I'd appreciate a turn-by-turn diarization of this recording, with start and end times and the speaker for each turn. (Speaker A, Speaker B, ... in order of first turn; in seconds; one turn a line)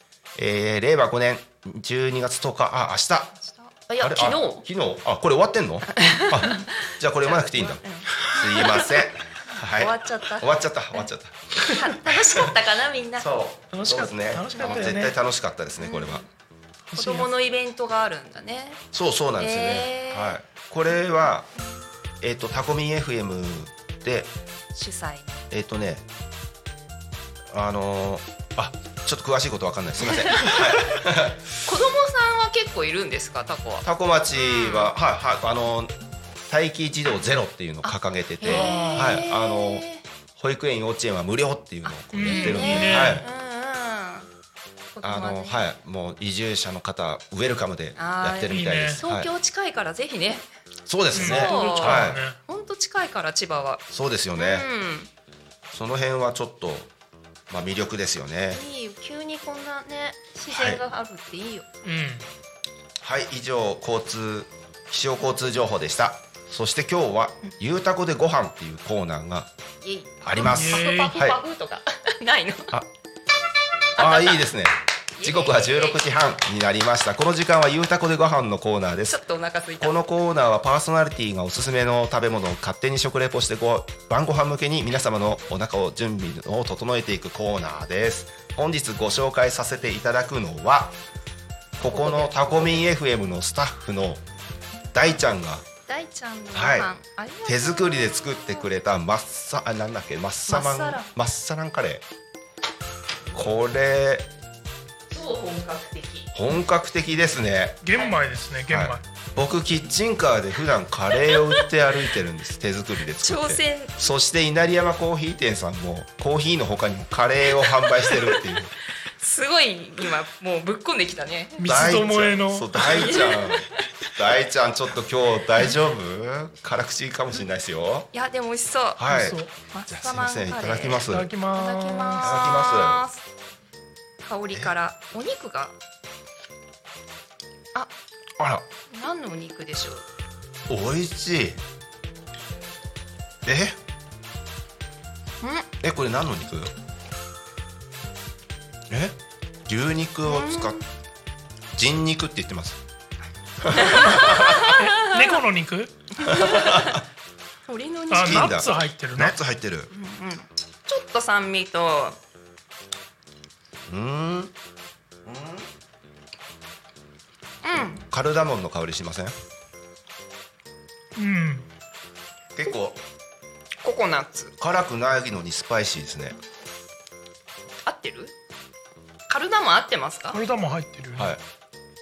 Speaker A: 0.3-3.3
Speaker B: 3.4-4.6
Speaker A: 4.0-12.5
Speaker B: 5.9-9.1
Speaker B: 9.7-11.1
Speaker B: 11.7-13.3
Speaker A: 13.2-16.2
Speaker C: 13.7-15.2
Speaker B: 15.8-16.3
Speaker C: 16.9-17.3
Speaker B: 17.0-18.8
Speaker A: 18.9-21.5
Speaker B: 19.4-20.4
Speaker A: 22.2-24.3
Speaker B: 24.7-25.5
Speaker A: 25.5-26.0
Speaker A: 27.5-31.4
Speaker B: 30.1-30.8
Speaker B: 31.6-34.9
Speaker A: 33.8-35.9
Speaker A: 36.5-43.3
Speaker B: 37.8-40.0
Speaker C: 38.5-39.2
Speaker B: 41.8-44.3
Speaker C: 42.1-43.2
Speaker B: 44.9-45.6
Speaker A: 45.0-49.3
Speaker B: 48.0-50.5
Speaker C: 48.5-49.0
Speaker A: 50.9-52.2
Speaker C: 51.1-52.4
Speaker B: 51.1-55.1
Speaker A: 53.9-54.7
Speaker A: 55.7-56.9
Speaker A: 57.5-58.6
Speaker B: 58.5-61.7
Speaker A: 60.5-60.8
Speaker C: 61.8-62.3
Speaker A: 63.0-69.5
Speaker B: 69.8-72.7
Speaker A: 70.2-71.4
Speaker C: 70.4-71.2
Speaker B: 74.0-74.4
Speaker A: 74.0-79.2
Speaker B: 75.2-76.0
Speaker B: 79.1-80.0
Speaker A: 79.8-91.0
Speaker A: 91.8-94.2
Speaker B: 91.8-92.8
Speaker A: 94.9-95.7
Speaker B: 95.9-98.7
Speaker A: 96.5-96.9
Speaker A: 97.4-102.0
Speaker B: 100.5-101.1
Speaker A: 103.3-104.3
Speaker B: 105.1-106.3
Speaker A: 106.3-107.8
Speaker C: 107.8-109.0
Speaker A: 108.7-118.7
Speaker B: 111.2-111.6
Speaker B: 113.2-114.0
Speaker B: 118.1-118.4
Speaker B: 119.2-122.0
Speaker C: 121.6-122.8
Speaker A: 121.6-128.1
Speaker B: 122.8-123.7
Speaker B: 128.1-133.2
Speaker A: 129.0-131.3
Speaker C: 129.1-129.5
Speaker C: 131.1-132.3
Speaker A: 132.2-133.0
Speaker B: 134.2-135.8
Speaker A: 138.4-138.6
Speaker B: 138.9-140.1
Speaker A: 140.7-141.6
Speaker A: 143.4-143.8
Speaker B: 145.4-145.7
Speaker A: 145.8-146.7
Speaker A: 148.9-150.8
Speaker B: 150.2-150.8
Speaker A: 151.7-152.8
Speaker A: 153.6-154.6
Speaker B: 153.7-155.4
Speaker C: 153.8-155.9
Speaker B: 156.2-157.0
Speaker A: 156.3-157.0
Speaker B: 157.7-158.6
Speaker C: 158.1-159.4
Speaker A: 158.2-159.9
Speaker B: 159.9-162.2
Speaker A: 163.9-164.5
Speaker A: 165.2-165.7
Speaker B: 167.6-168.0
Speaker A: 168.1-169.3
Speaker C: 171.2-171.7
Speaker A: 172.5-173.0
Speaker B: 173.8-174.5
Speaker A: 174.6-176.4
Speaker B: 177.8-178.3
Speaker B: 179.3-180.4
Speaker C: 180.3-181.3
Speaker A: 181.2-181.4